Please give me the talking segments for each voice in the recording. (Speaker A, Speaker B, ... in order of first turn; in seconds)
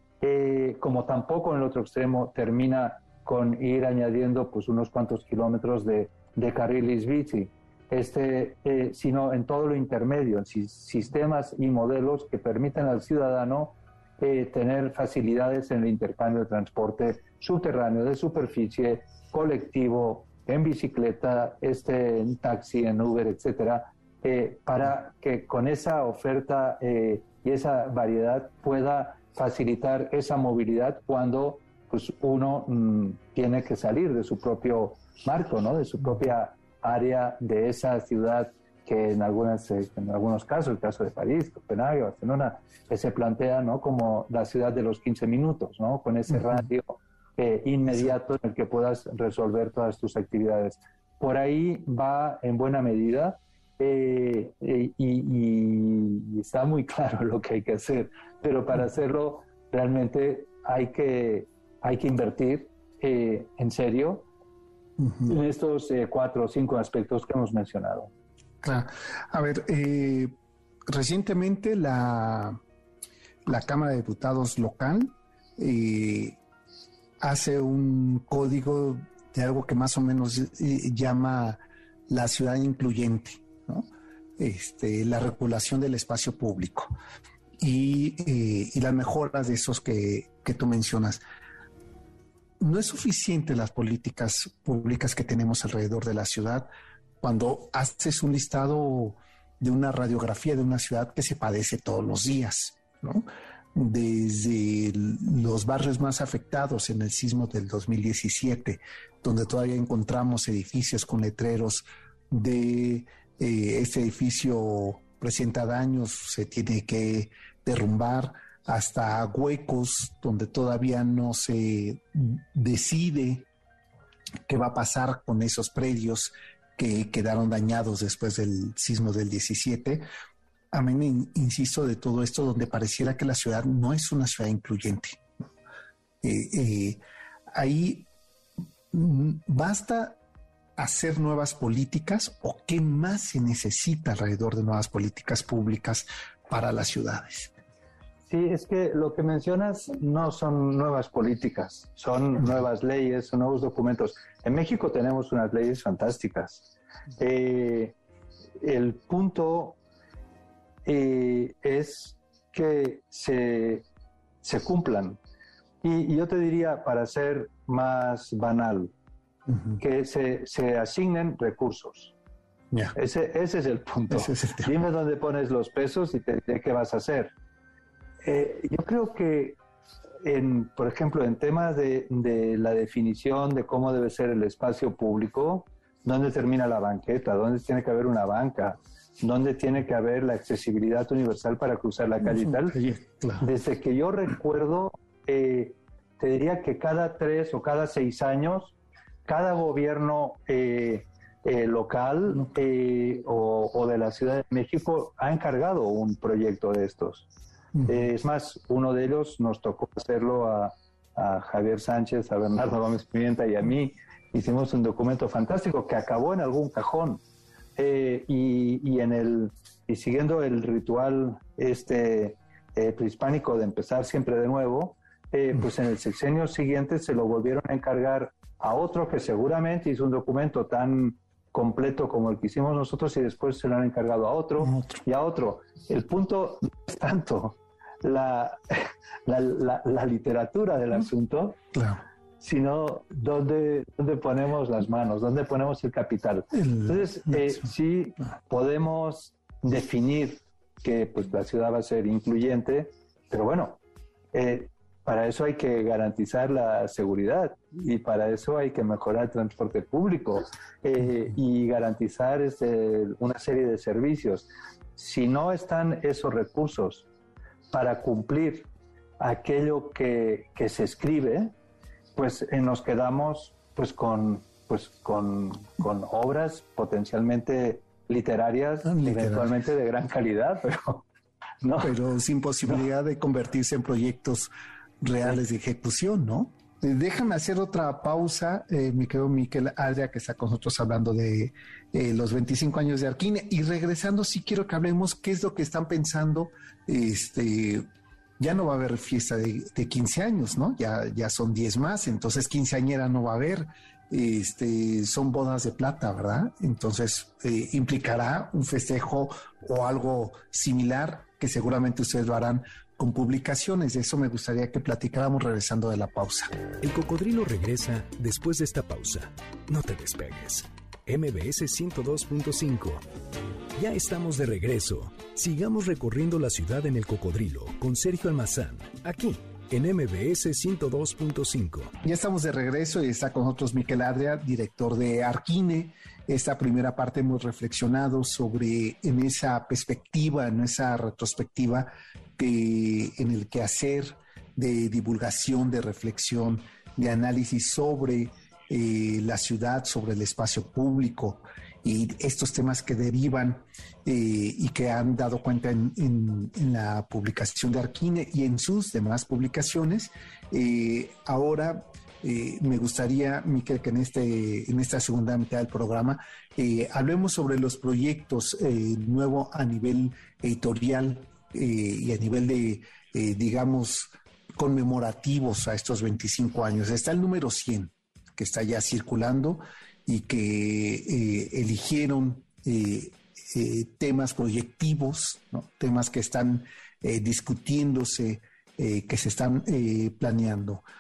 Speaker A: 0.2-64.3, 65.2-68.1, 148.3-157.9, 158.6-159.8, 160.8-163.8, 164.4-165.2, 165.8-168.9, 169.8-172.1, 172.9-177.3, 178.2-179.6, 180.2-192.8, 193.4-207.3, 207.9-217.2, 217.8-241.6, 242.4-253.8, 254.3-267.1, 267.7-268.7, 269.2-271.5, 272.1-281.1, 281.6-282.0
Speaker B: 65.0-65.3, 68.6-70.3, 70.9-72.6, 73.5-76.4, 77.2-86.9, 87.6-91.2, 92.6-96.7, 97.2-123.5, 124.5-130.1, 130.7-135.2, 136.2-137.0, 137.5-138.1, 138.9-140.2, 140.8-147.5, 169.5-169.8, 174.1-174.7, 192.3-193.5, 234.7-235.0, 241.7-242.0, 246.5-247.6, 278.9-279.5, 281.8-284.5, 285.0-297.9, 298.4-316.6, 332.0-390.8
Speaker C: 316.8-323.0, 323.8-331.9